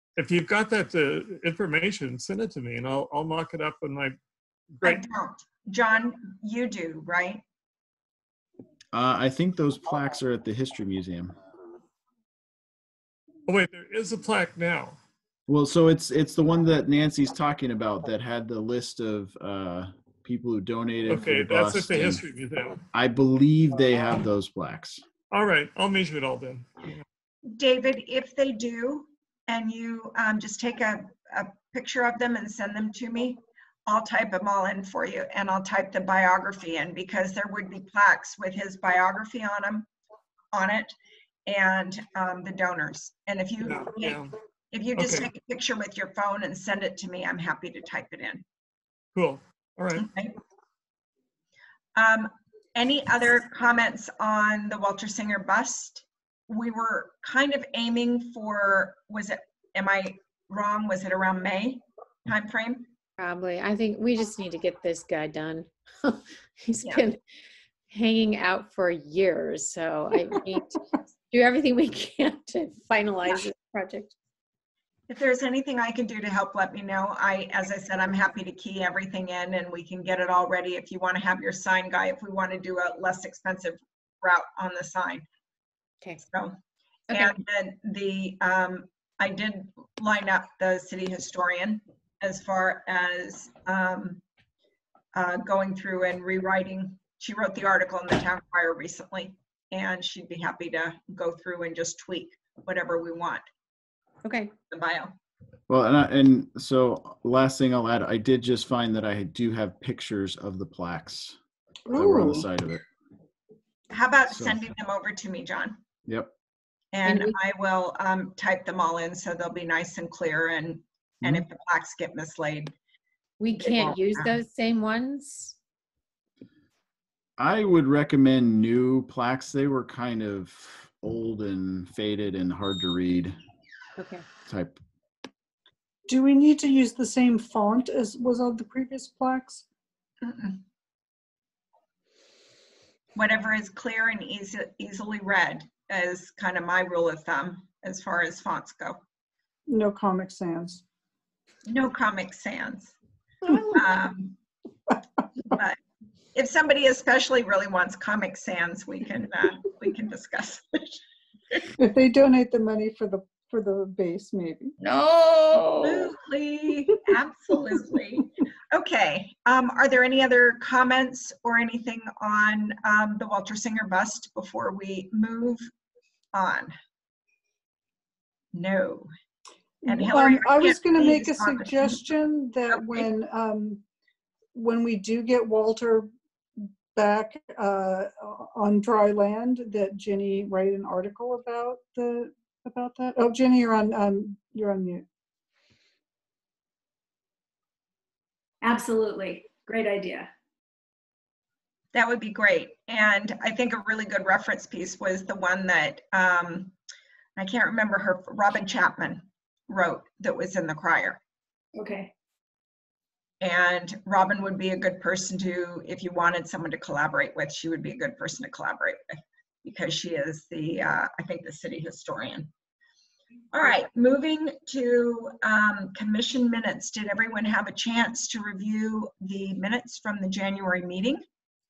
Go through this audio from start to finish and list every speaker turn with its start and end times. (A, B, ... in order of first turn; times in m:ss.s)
0:00.2-0:04.2 A
0:04.8-0:07.4 B
0:08.9-0:11.3 C
0:13.5-0:15.0 A
0:15.5-0:22.2 C
0:21.1-0:22.8 A
0:22.9-0:25.0 C
0:25.3-0:27.0 A
0:27.4-0:39.9 B
0:40.5-0:40.9 B
0:41.4-0:44.2 B
0:43.6-0:44.3 A
0:44.7-0:48.4 B
0:45.0-0:45.3 A
0:49.1-0:50.0 A
0:50.0-0:50.4 B
0:52.0-1:02.9 B
1:03.2-1:07.2 D
1:07.9-1:14.1 D
1:15.1-1:25.2 B
1:26.2-1:26.6 B
1:27.1-1:34.2 B
1:35.1-1:43.4 B
1:44.2-1:44.5 D
1:44.7-1:45.1 B
1:45.7-1:51.4 C
1:51.9-1:52.4 E
1:51.9-1:52.8 C
1:53.9-1:55.8 B
1:54.3-1:54.7 C
1:56.0-1:56.3 C
1:56.9-2:02.7 B
1:57.0-1:57.4 D
2:03.4-2:05.6 D
2:03.6-2:04.3 B
2:07.4-2:13.4 C
2:14.0-2:14.2 D
2:14.4-2:14.8 C
2:16.1-2:19.6 E
2:20.2-2:20.6 B
2:23.2-2:29.0 B
2:29.7-2:30.8 E
2:31.6-2:32.9 B
2:33.5-2:33.8 E
2:33.5-2:34.4 B
2:35.4-2:35.8 B
2:36.3-2:41.0 B
2:41.8-2:44.7 E
2:45.8-2:55.7 B
2:56.3-2:56.7 B
2:58.5-2:59.1 B
2:59.8-3:03.8 E
2:59.8-3:02.0 B
3:02.7-3:03.1 B
3:04.5-3:15.0 E
3:18.6-3:20.3 F
3:21.9-3:26.7 B
3:27.4-3:31.2 B
3:31.7-3:32.1 F
3:33.4-3:42.5 B
3:43.5-3:51.2 B